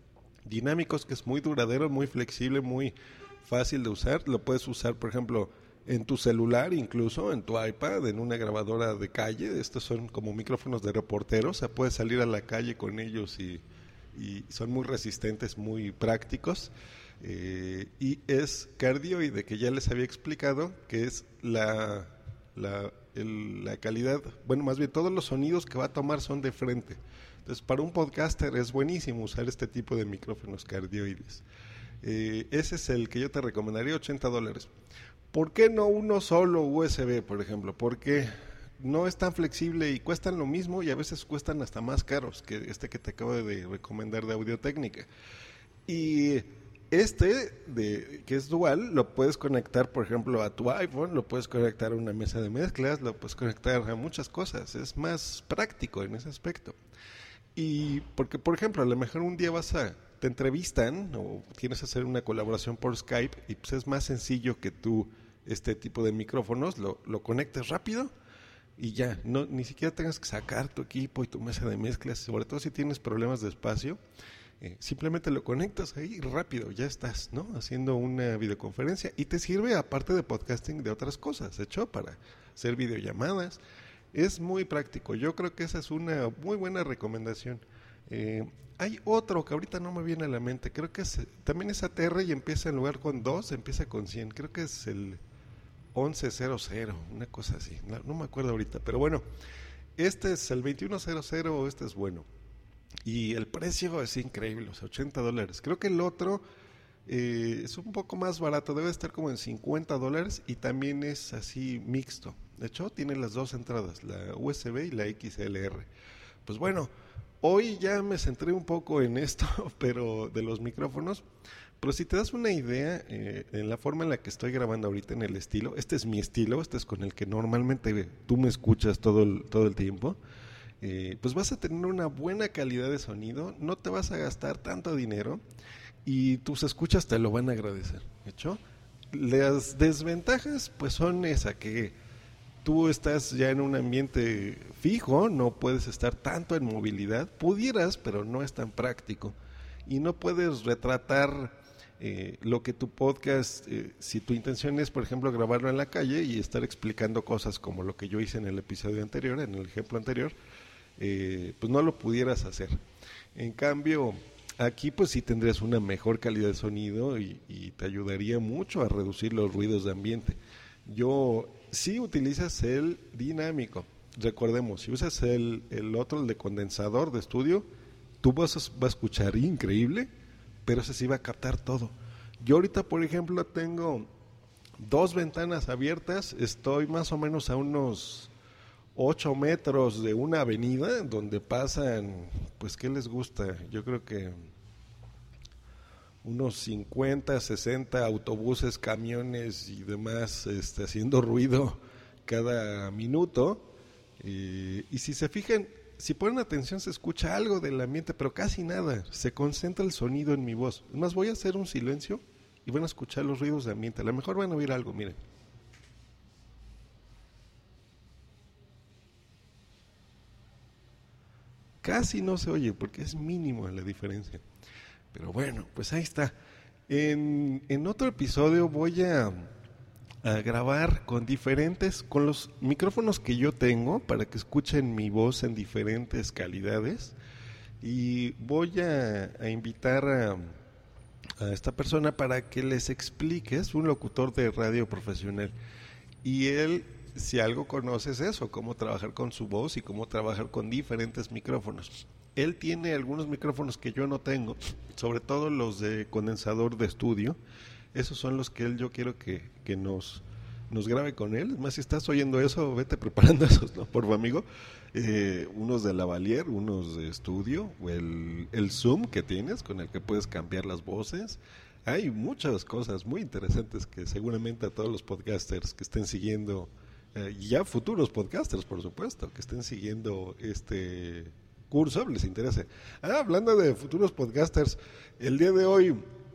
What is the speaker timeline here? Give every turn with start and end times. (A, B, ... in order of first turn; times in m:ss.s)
0:00.4-0:13.6 A
0:14.1-0:31.4 A
0:32.0-0:34.7 A
0:35.3-0:45.1 A
0:45.9-0:56.8 A
0:57.6-1:08.1 A
1:08.8-1:14.0 A
1:14.6-1:23.6 A
1:24.1-1:35.2 A
1:35.9-1:39.2 A
1:40.0-1:42.2 A
1:43.0-1:46.4 A
1:47.1-1:55.9 A
1:56.4-1:56.9 A
1:57.4-2:01.2 A
2:01.8-2:10.2 A
2:10.8-2:15.4 A
2:16.0-2:18.6 A
2:19.1-2:21.9 A
2:22.6-2:29.3 A
2:29.8-2:40.4 A
2:41.0-2:42.8 A
2:43.3-2:57.6 A
2:58.2-3:00.1 A
3:00.6-3:04.1 A
3:04.8-3:08.3 A
3:08.9-3:14.4 A
3:16.2-3:23.7 A
3:24.2-3:35.2 A
3:41.8-3:44.4 A
3:45.1-3:46.3 A
3:46.9-3:49.5 A
3:50.2-3:57.1 A
3:57.8-4:00.6 A
4:01.4-4:05.5 A
4:06.2-4:17.4 A
4:17.9-4:46.0 A